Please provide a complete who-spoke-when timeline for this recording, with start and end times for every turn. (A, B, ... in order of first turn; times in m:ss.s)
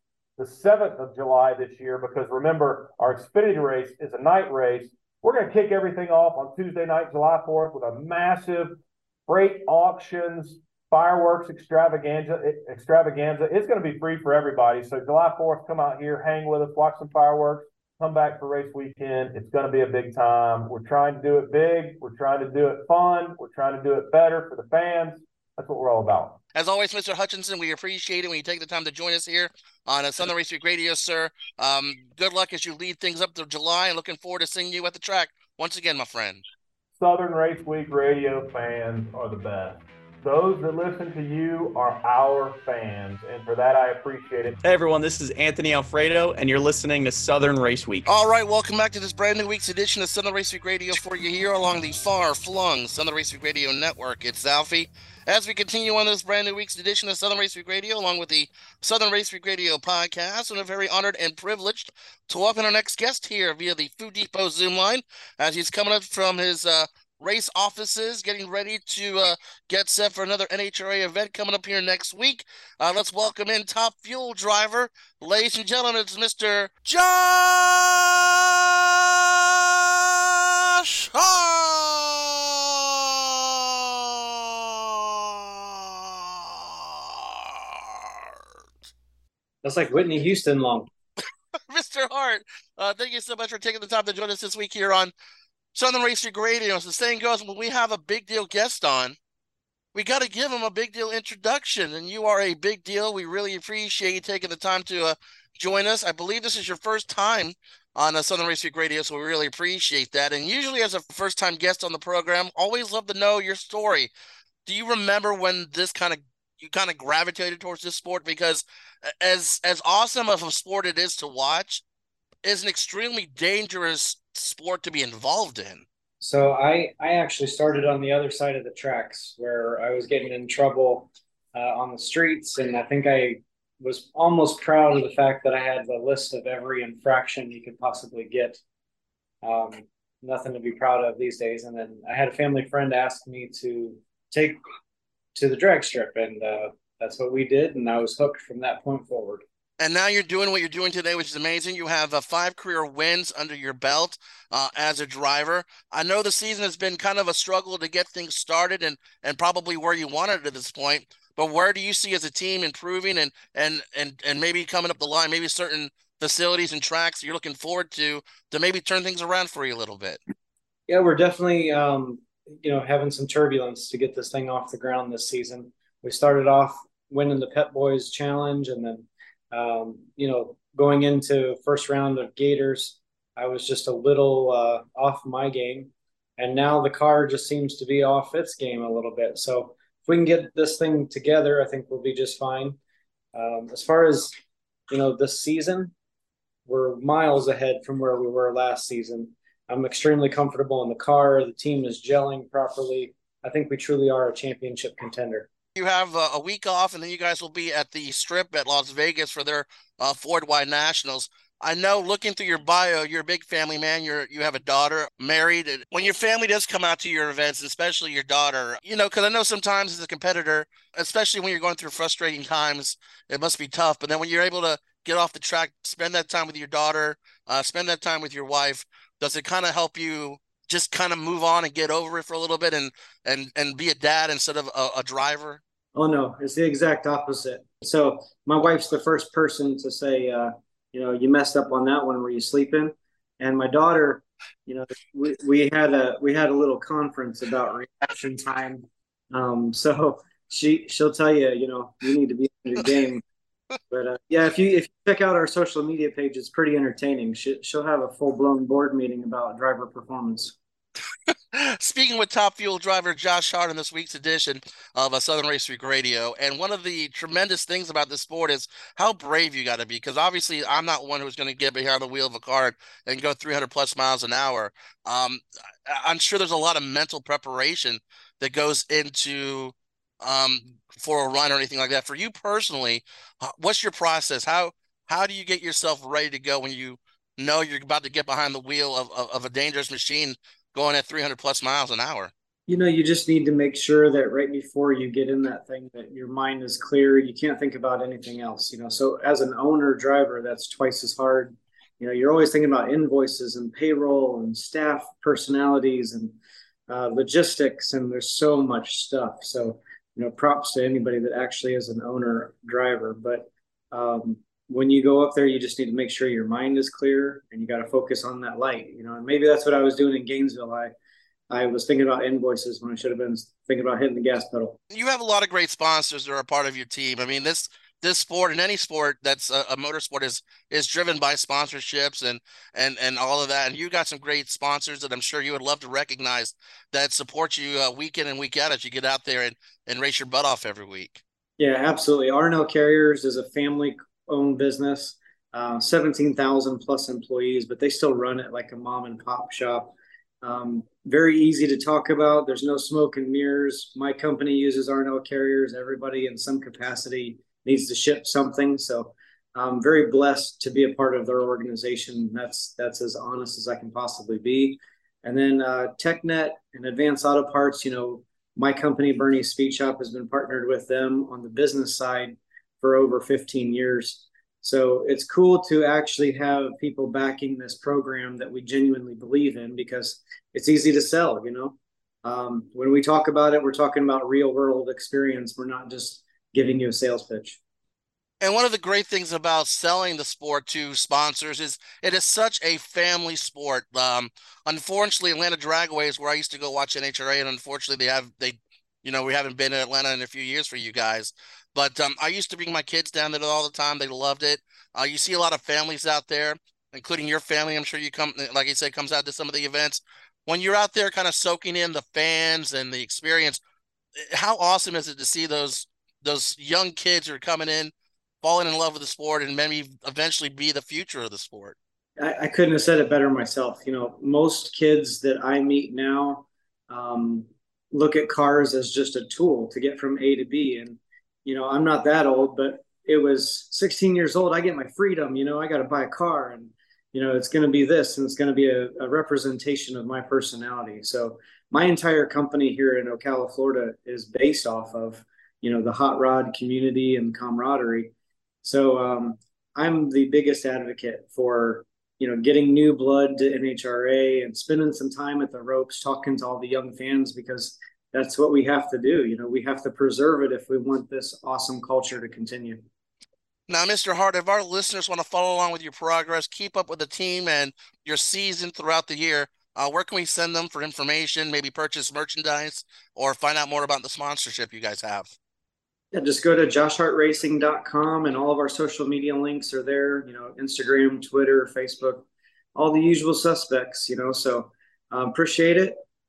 0:00.4-0:26.4 A
0:26.6-0:36.4 B
0:37.0-0:44.6 A
0:44.6-0:48.1 C
0:48.1-1:28.3 B
1:29.6-1:30.9 D
1:31.7-1:35.1 B
1:35.8-1:39.2 B
1:40.0-1:54.1 B
1:54.7-2:01.8 B
2:02.4-2:05.8 B
2:06.2-2:18.6 D
2:19.4-2:24.6 D
2:25.4-2:29.4 D
2:29.8-2:50.2 B
2:50.9-3:12.8 D
3:13.3-3:14.3 D
3:14.9-3:15.9 D
3:16.7-3:25.5 D
3:25.8-3:55.6 B
3:56.0-4:13.2 D
4:13.9-4:20.6 D
4:21.5-4:52.3 B
4:52.7-5:06.4 D
5:06.9-5:20.9 D
5:21.5-5:24.8 D
5:24.9-5:41.2 B
5:41.6-6:27.6 D
6:28.4-6:53.6 B
6:54.2-6:57.9 B
6:58.4-7:01.8 B
7:02.2-7:28.1 D
7:28.6-7:42.8 D
7:43.7-7:55.3 B
7:56.1-8:06.0 D